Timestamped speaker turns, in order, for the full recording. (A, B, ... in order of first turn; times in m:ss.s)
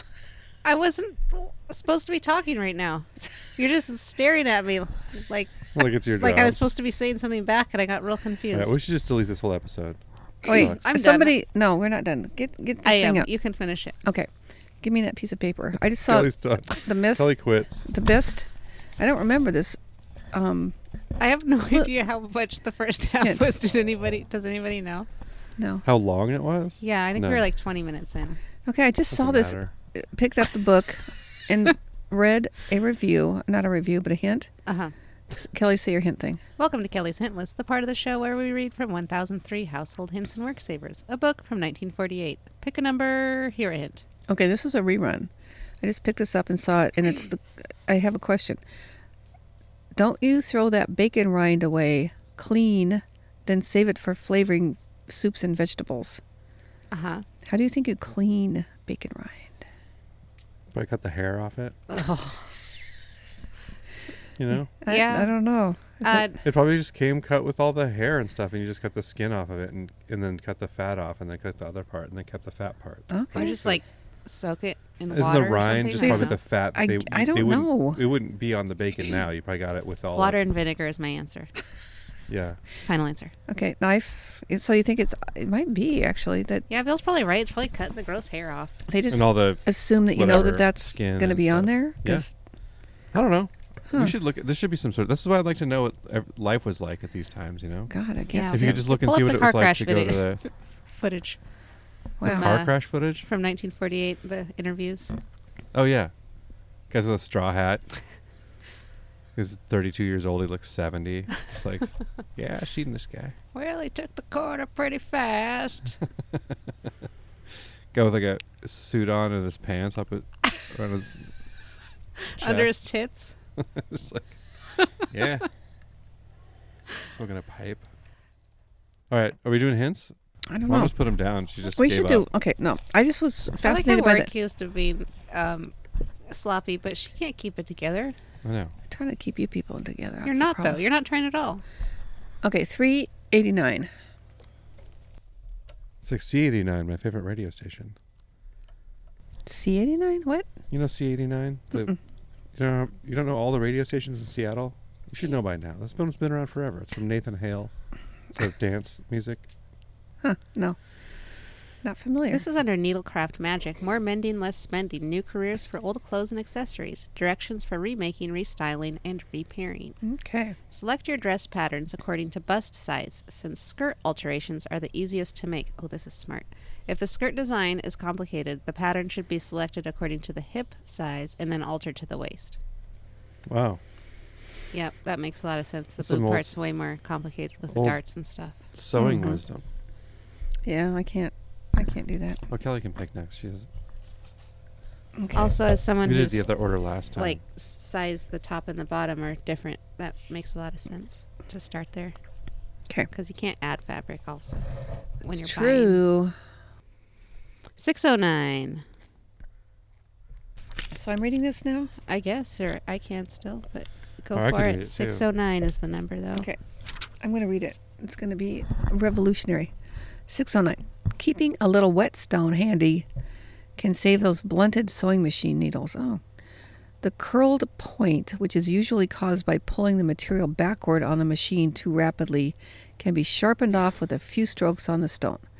0:00.6-0:08.8 A
0:05.7-0:06.6 B
0:08.5-0:10.8 B
0:10.4-0:11.4 A
0:10.4-0:13.3 C
0:12.8-0:13.9 A
0:14.0-0:14.3 C
0:14.8-0:17.3 C
0:16.0-0:17.9 B
0:17.8-0:19.8 C
0:20.3-0:20.7 C
0:21.2-0:25.1 A
0:23.2-0:23.5 C
0:25.6-0:25.8 C
0:25.8-0:27.4 B
0:26.8-0:28.4 A
0:28.6-0:34.5 C
0:29.1-0:29.7 B
0:34.6-0:34.9 A
0:35.3-0:36.4 C
0:36.6-0:44.0 A
0:44.3-0:45.3 C
0:45.8-0:48.6 C
0:49.9-0:56.2 C
0:56.9-0:57.2 A
0:57.4-0:59.6 C
1:00.7-1:01.8 B
1:01.9-1:02.4 A
1:04.4-1:04.7 B
1:04.7-1:06.3 C
1:04.9-1:05.4 A
1:06.0-1:06.4 A
1:06.4-1:13.8 B
1:13.1-1:13.8 C
1:13.3-1:16.4 A
1:15.1-1:20.4 B
1:15.9-1:18.0 C
1:20.1-1:21.5 A
1:22.3-1:22.6 B
1:22.8-1:23.3 A
1:23.5-1:26.6 C
1:26.7-1:28.8 A
1:28.9-1:32.3 C
1:29.1-1:32.3 B
1:33.1-1:37.9 B
1:37.9-1:38.8 C
1:38.3-1:41.4 A
1:38.5-1:40.4 B
1:42.2-1:42.5 C
1:42.2-1:43.2 B
1:42.2-1:45.1 A
1:45.7-1:46.1 B
1:46.9-1:47.8 B
1:49.4-1:53.3 B
1:53.5-1:56.0 A
1:57.9-2:01.3 B
2:02.4-2:02.8 B
2:02.4-2:03.3 A
2:03.6-2:04.4 B
2:05.0-2:05.5 B
2:07.0-2:07.9 B
2:09.1-2:10.1 B
2:10.5-2:10.9 C
2:10.6-2:12.2 B
2:11.6-2:14.3 C
2:13.6-2:15.7 A
2:16.3-2:18.2 A
2:18.4-2:18.7 B
2:18.9-2:20.8 C
2:20.2-2:21.6 A
2:22.4-2:23.9 C
2:26.0-2:28.0 B
2:29.4-2:30.5 C
2:30.7-2:31.9 B
2:32.5-2:37.7 B
2:38.3-2:39.5 B
2:40.2-2:40.8 C
2:41.8-2:42.4 C
2:42.3-2:50.0 A
2:50.0-2:50.6 C
2:50.7-3:02.6 A
3:03.5-3:03.8 B
3:04.7-3:08.6 A
3:06.0-3:06.5 B
3:07.7-3:08.0 B
3:08.7-3:09.6 B
3:09.0-3:09.4 C
3:10.6-3:12.4 C
3:12.5-3:13.7 B
3:15.2-3:15.6 C
3:15.3-3:16.5 A
3:16.0-3:17.4 B
3:17.2-3:22.1 A
3:23.1-3:24.6 A
3:25.2-3:26.0 A
3:25.3-3:26.3 C
3:27.8-3:28.8 A
3:30.9-3:31.9 C
3:32.1-3:36.5 A
3:34.3-3:35.2 B
3:36.3-3:36.6 C
3:37.2-3:39.7 C
3:40.3-3:43.1 C
3:43.8-3:46.2 C
3:47.0-3:55.4 C